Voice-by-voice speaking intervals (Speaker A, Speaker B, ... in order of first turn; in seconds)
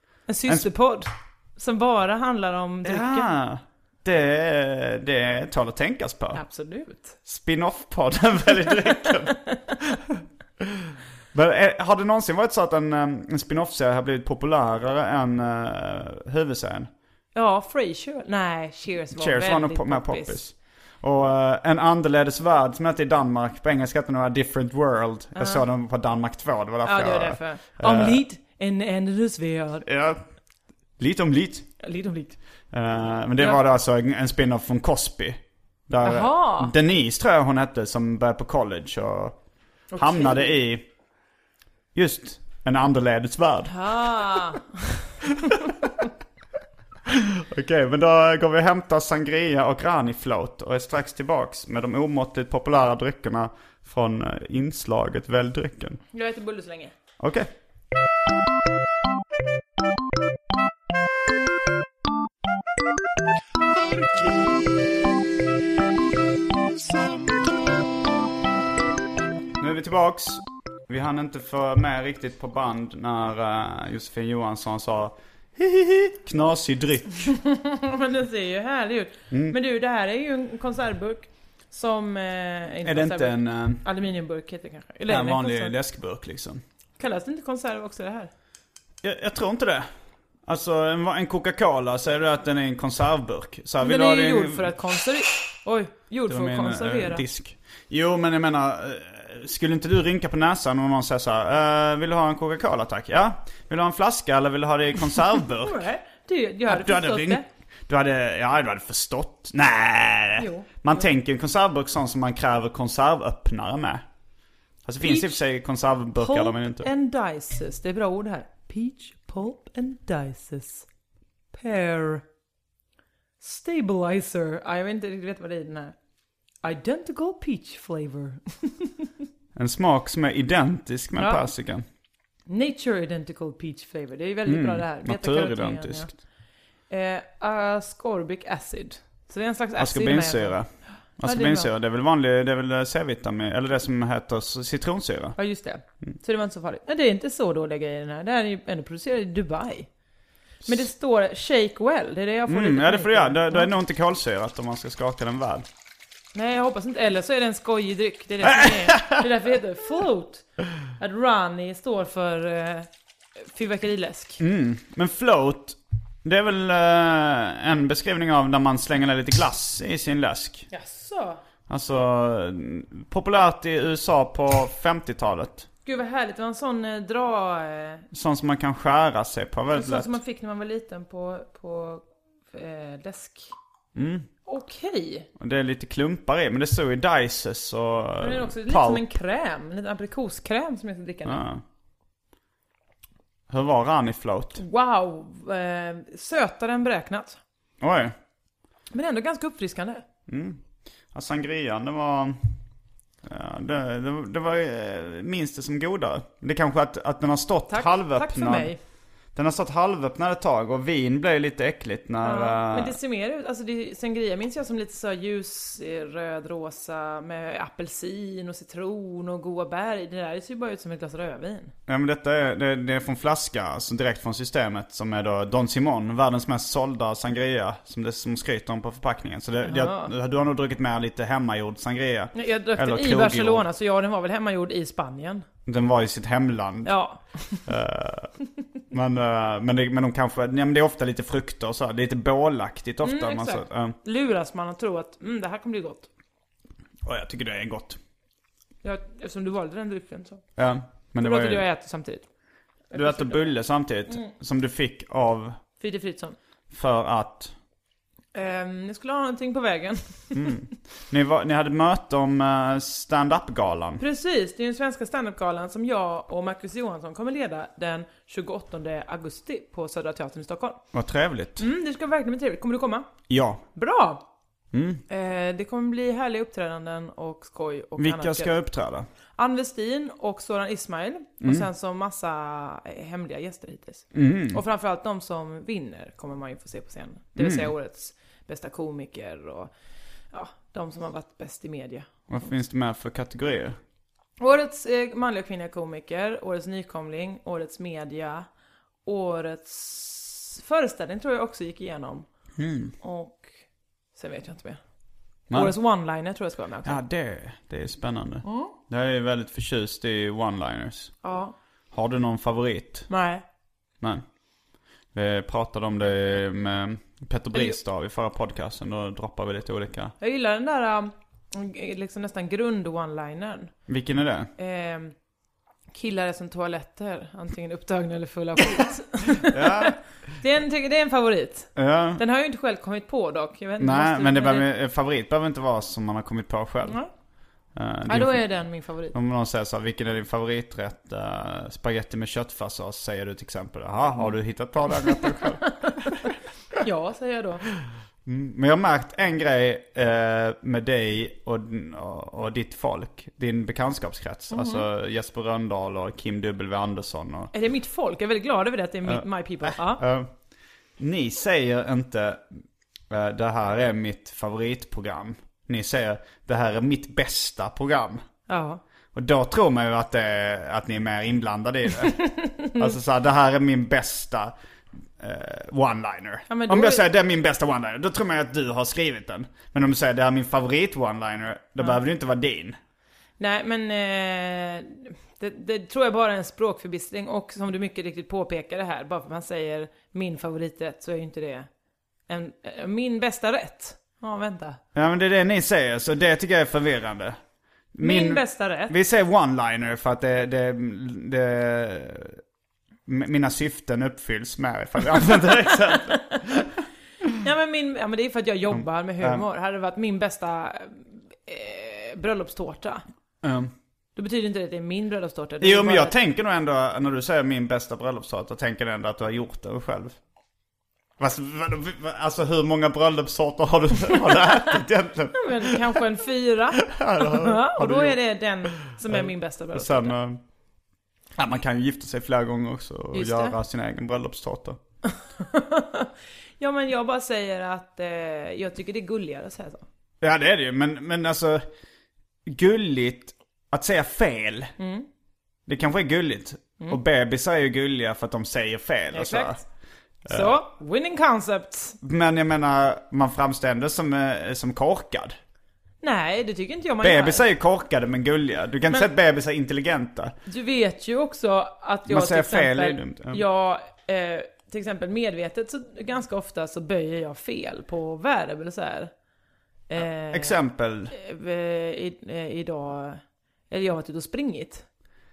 Speaker A: 0.3-3.3, 6.3-7.2, 9.1-9.6, 17.4-20.4, 25.4-25.6, 26.9-29.9, 31.8-32.4, 33.4-33.6, 36.0-36.7, 39.9-40.6, 43.7-45.1, 56.1-56.9, 77.3-85.7, 87.0-88.3, 93.8-97.2, 105.6-107.4, 110.4-111.0, 115.0-115.4, 116.2-120.9, 121.5-122.2, 123.4-126.0, 126.6-129.1, 131.2-131.5, 132.5-136.1, 136.9-140.6, 141.2-141.7, 145.4-149.9, 150.6-153.7, 156.3-160.4, 161.0-164.4, 170.7-171.4, 175.9-178.0, 179.7-183.5, 184.4-185.3, 188.2-191.4, 194.6-197.4, 198.9-200.0, 207.7-208.8, 212.2-221.7, 229.6-230.1, 232.3-235.4, 236.8-237.7, 243.0-246.1, 248.8-250.4, 251.2-252.3, 252.9-253.5, 255.8-256.4, 258.3-260.6, 264.0-270.8, 271.6-273.1, 273.7-274.3, 275.1-278.6, 279.4-289.7, 290.3-292.2, 294.4-298.5, 299.1-302.3, 303.0-303.6, 304.2-304.8, 305.5-307.0, 308.4-308.7, 311.2-311.6, 313.1-313.4, 320.2-323.7, 324.6-325.1, 325.9-334.7, 336.9-337.1, 338.1-339.1, 345.7-346.1, 346.8-347.7, 354.5-354.9, 357.5-360.0, 368.5-368.8, 372.1-372.9, 376.5-377.1, 383.4-391.7, 392.3-394.8, 398.0-398.9, 405.9-406.7, 407.4-413.0, 414.2-416.1, 425.4-430.1, 433.1-433.6, 435.1-439.9, 444.8-445.1, 449.1-449.6, 450.3-452.0, 456.0-457.4, 460.5-469.1, 469.9-470.6, 471.1-474.9
Speaker B: 2.9-6.4, 7.3-16.9, 19.1-28.2, 29.8-30.2, 31.0-31.7, 32.7-39.4, 40.0-40.9, 41.9-44.0, 45.5-45.8, 47.1-56.0, 57.2-57.5, 69.6-77.4, 79.3-79.6, 82.8-83.8, 85.1-86.6, 89.0-89.9, 90.5-94.7, 96.3-105.9, 106.7-114.0, 114.8-116.9, 129.6-131.9, 134.4-136.1, 139.8-140.7, 141.2-145.4, 152.5-155.7, 158.4-159.3, 164.4-170.7, 171.7-175.7, 178.1-180.2, 183.9-184.3, 185.4-189.1, 191.3-191.6, 193.5-194.6, 197.8-198.1, 200.3-202.4, 203.2-208.7, 209.3-213.0, 221.9-233.7, 235.7-236.9, 237.7-238.3, 238.9-243.9, 247.1-248.0, 250.6-251.6, 252.9-255.6, 256.7-257.5, 260.3-264.0, 270.9-271.7, 273.3-273.6, 274.7-275.0, 278.0-279.1, 284.1-284.6, 287.4-287.7, 292.3-293.8, 302.6-302.9, 306.9-311.1, 311.9-313.1, 315.1-320.1, 323.9-324.5, 329.4-330.0, 331.8-332.2, 333.8-337.0, 337.8-338.4, 339.1-346.3, 348.3-357.5, 359.1-360.3, 361.0-368.2, 369.1-372.2, 372.7-374.5, 375.2-382.8, 394.9-397.4, 397.9-402.4, 403.1-406.6, 408.7-409.4, 413.4-413.7, 415.6-420.2, 421.2-426.0, 426.9-428.2, 428.9-430.4, 431.4-434.8, 440.2-441.7, 442.4-444.7, 445.7-449.6, 450.3-450.6, 452.0-455.4, 457.0-460.4, 462.1-463.4, 470.3-471.1